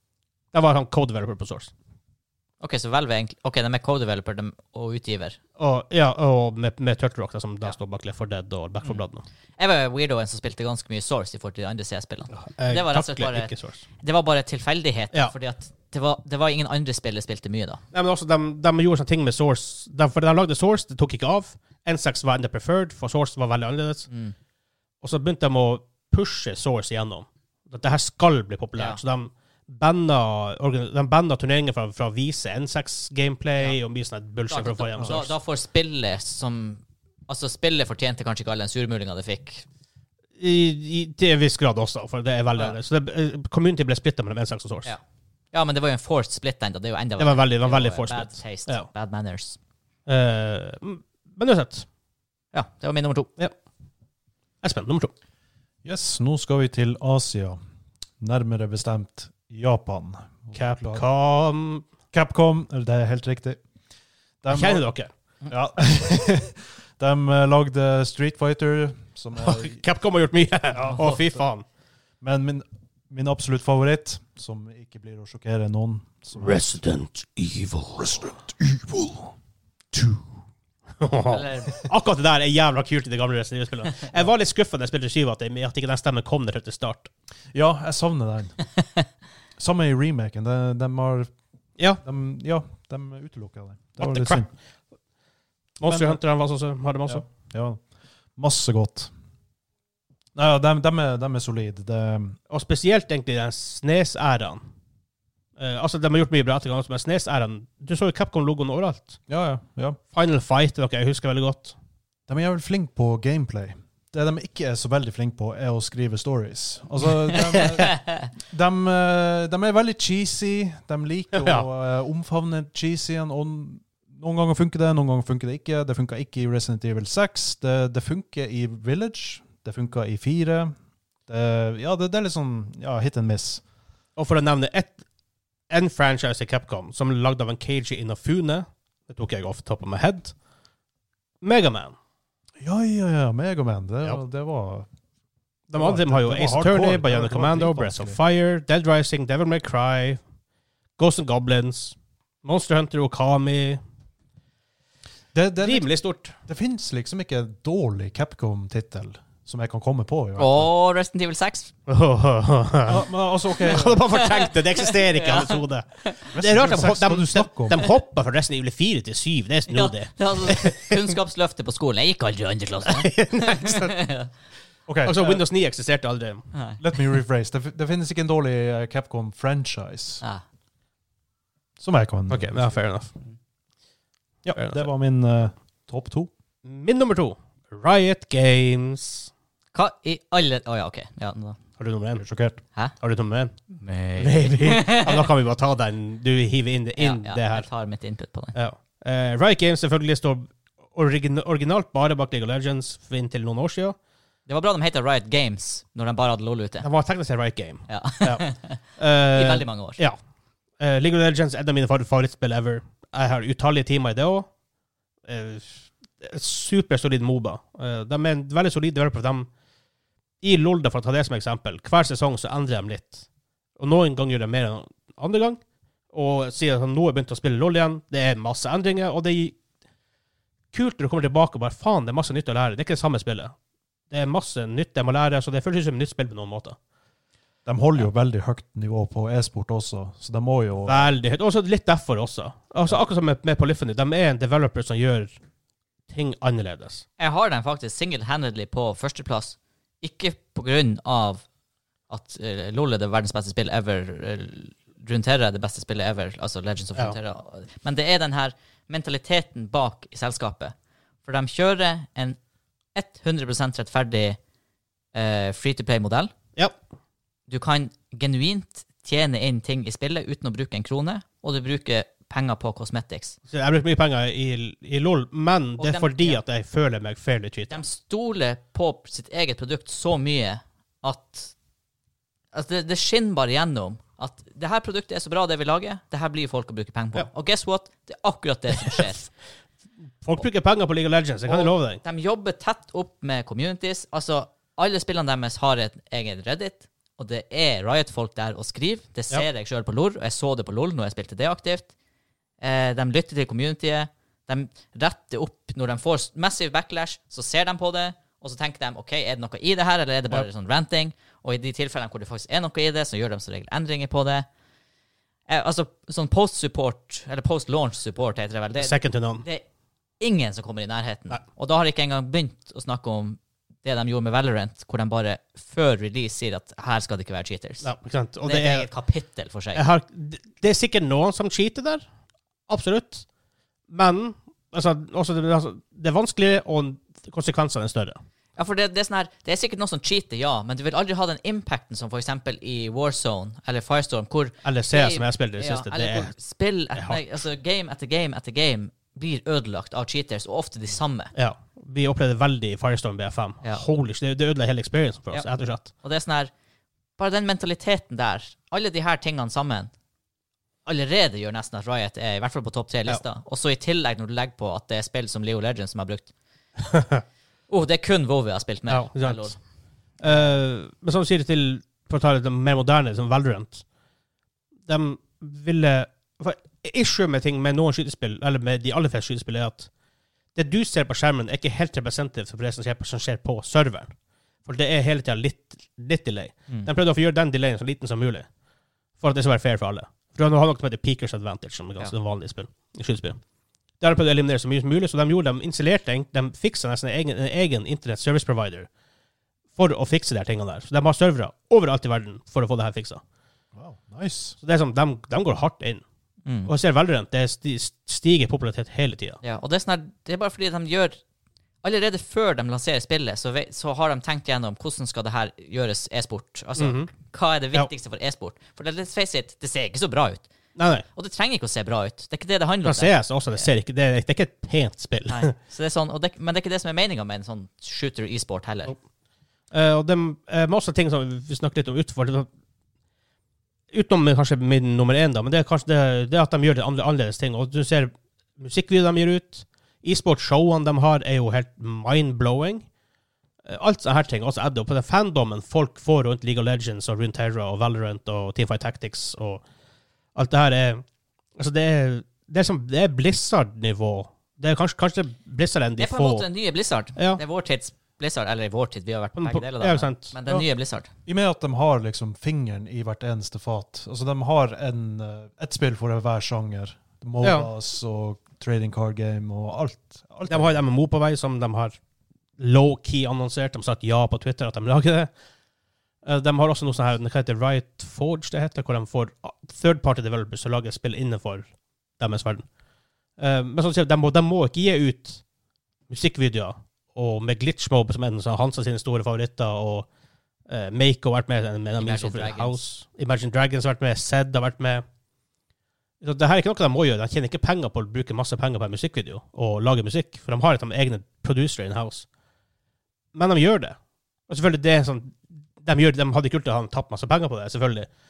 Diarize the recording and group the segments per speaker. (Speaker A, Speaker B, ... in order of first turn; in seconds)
Speaker A: 0.5-1.7, 5.6-9.2, 12.4-13.8, 17.9-24.1, 25.0-35.3, 40.4-44.9, 47.2-48.9, 50.1-51.9, 54.6-55.1, 60.5-61.9, 64.5-65.1, 69.4-71.6, 76.4-79.2, 81.0-87.1, 94.0-94.5, 95.8-97.2, 102.5-104.6, 105.6-109.2, 110.1-111.8, 121.3-121.7, 134.2-135.0, 135.7-140.3, 141.4-142.0, 145.7-150.2, 151.0-153.8, 155.6-156.4, 161.9-163.1, 163.6-171.0, 172.8-174.0, 175.1-176.5, 182.3-183.1, 184.5-184.9, 186.6-189.3, 191.8-192.3, 193.0-193.6, 194.2-197.7, 198.6-204.0, 206.8-210.2, 210.8-214.5, 215.3-219.5, 220.4-223.2, 223.8-225.6, 226.1-229.6, 230.7-233.5, 234.1-236.8, 240.9-245.3, 246.1-247.1, 273.5-277.8, 290.2-292.0, 318.8-319.4, 327.8-328.9, 329.8-332.1, 332.7-333.2, 333.9-338.2, 344.6-346.3, 347.0-347.3, 351.4-355.9, 366.9-367.2, 368.9-369.6, 370.2-373.8, 374.9-379.9, 380.6-384.1, 384.6-388.5, 389.2-393.4, 394.0-398.9, 399.8-403.2, 404.6-406.0, 406.7-409.4, 416.8-417.1, 420.8-421.1, 422.8-425.5, 429.7-432.5, 433.9-442.9, 443.7-449.6, 450.4-451.0, 451.6-456.4, 457.2-457.4, 459.4-460.4, 467.4-467.7, 470.5-472.0, 472.6-475.3, 476.2-482.6, 483.4-485.4, 486.1-490.1, 490.7-495.0, 496.2-502.3, 503.3-504.0, 504.5-508.1
Speaker B: 2.6-5.4, 9.6-17.8, 24.1-24.4, 34.5-39.6, 44.9-49.6, 52.5-53.3, 81.3-81.9, 117.6-118.2, 160.4-161.7, 164.1-166.2, 169.7-174.3, 176.5-176.8, 189.7-191.6, 193.8-195.3, 197.0-198.6, 204.5-206.9, 207.9-210.0, 247.2-251.5, 252.1-260.7, 261.2-262.4, 262.9-264.4, 265.1-266.3, 267.5-273.4, 275.8-276.4, 277.7-281.5, 282.5-289.3, 291.5-301.9, 302.6-314.5, 315.5-319.6, 320.2-327.9, 328.4-329.8, 338.6-351.3, 355.3-356.5, 357.2-359.9, 360.9-366.3, 367.7-369.6, 406.5-406.7, 409.4-411.2, 411.8-420.5, 421.1-423.7, 425.3-428.9, 456.0-461.1, 492.0-492.8
Speaker C: 55.8-57.6, 58.2-61.0, 62.1-63.6, 64.4-64.9, 65.5-69.8, 70.7-71.4, 72.2-76.6, 87.5-88.6, 89.6-91.3, 92.0-94.5, 95.9-96.2, 97.1-97.8, 98.4-99.1, 100.4-102.4, 109.3-110.0, 112.3-130.7, 131.3-133.6, 142.6-144.9, 145.7-148.2, 155.3-155.9, 156.4-160.7, 162.9-164.1, 166.3-167.8, 174.9-175.4, 176.8-180.2, 181.8-182.8, 184.4-186.3, 192.2-192.6, 237.7-241.1, 403.8-404.6, 461.3-470.8